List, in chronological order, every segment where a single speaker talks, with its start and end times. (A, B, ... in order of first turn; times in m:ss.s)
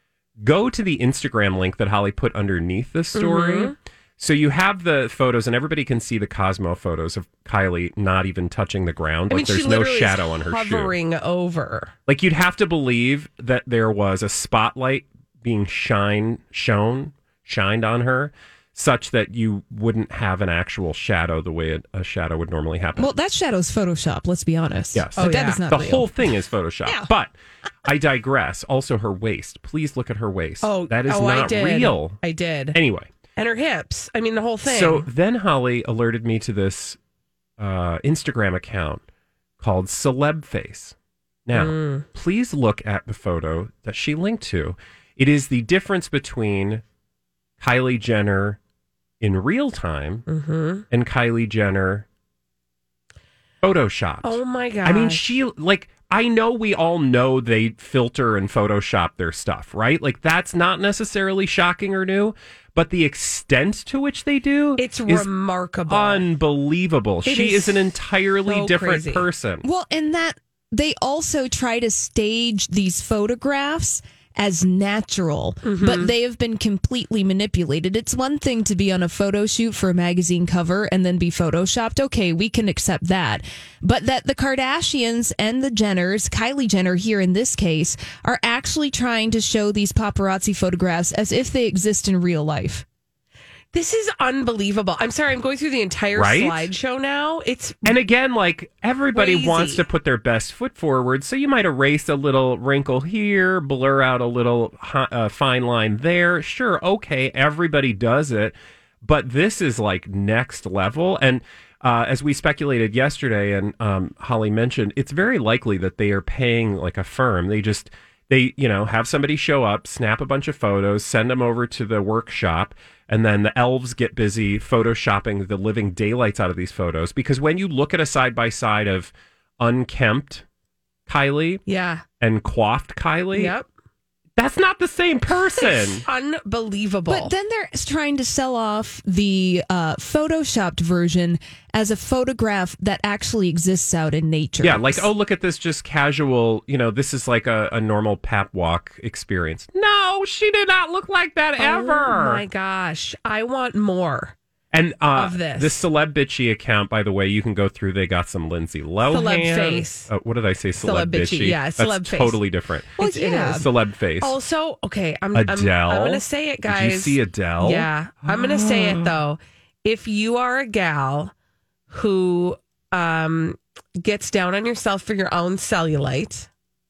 0:00.4-0:10.9 A
0:03.1-0:03.7 B
0:09.3-0:11.9 B
0:12.1-0:23.1 A
0:23.0-0:26.0 C
0:24.9-0:27.3 A
0:25.1-0:25.6 B
0:27.8-0:32.2 A
0:30.6-0:32.8 B
0:32.7-0:33.1 A
0:33.4-0:35.1 B
0:34.6-0:37.0 A
0:37.6-0:39.0 A
0:39.6-0:40.9 A
0:41.5-0:46.8 A
0:41.5-0:42.0 B
0:47.6-0:48.6 A
0:49.2-0:50.2 A
0:50.3-0:50.8 B
0:50.9-0:52.0 A
0:53.6-1:05.3 A
0:54.2-0:55.2 B
1:04.8-1:06.3 B
1:05.9-1:09.6 A
1:07.2-1:07.9 B
1:08.4-1:09.3 B
1:09.6-1:32.8 C
1:15.6-1:16.1 B
1:33.7-1:38.0 B
1:36.1-1:36.7 A
1:37.8-2:10.4 A
1:39.1-1:39.8 B
2:11.1-2:11.6 A
2:11.6-2:12.0 B
2:12.2-2:13.5 A
2:13.3-2:13.7 B
2:14.4-2:16.0 A
2:15.6-2:17.3 B
2:17.1-2:25.1 C
2:24.6-2:32.4 A
2:31.6-2:34.3 B
2:34.7-2:44.4 A
2:35.1-2:35.8 B
2:39.0-2:40.1 B
2:40.8-2:42.4 B
2:43.0-2:43.7 B
2:43.0-2:43.6 C
2:44.2-2:51.3 B
2:45.3-2:49.2 A
2:51.9-2:56.5 B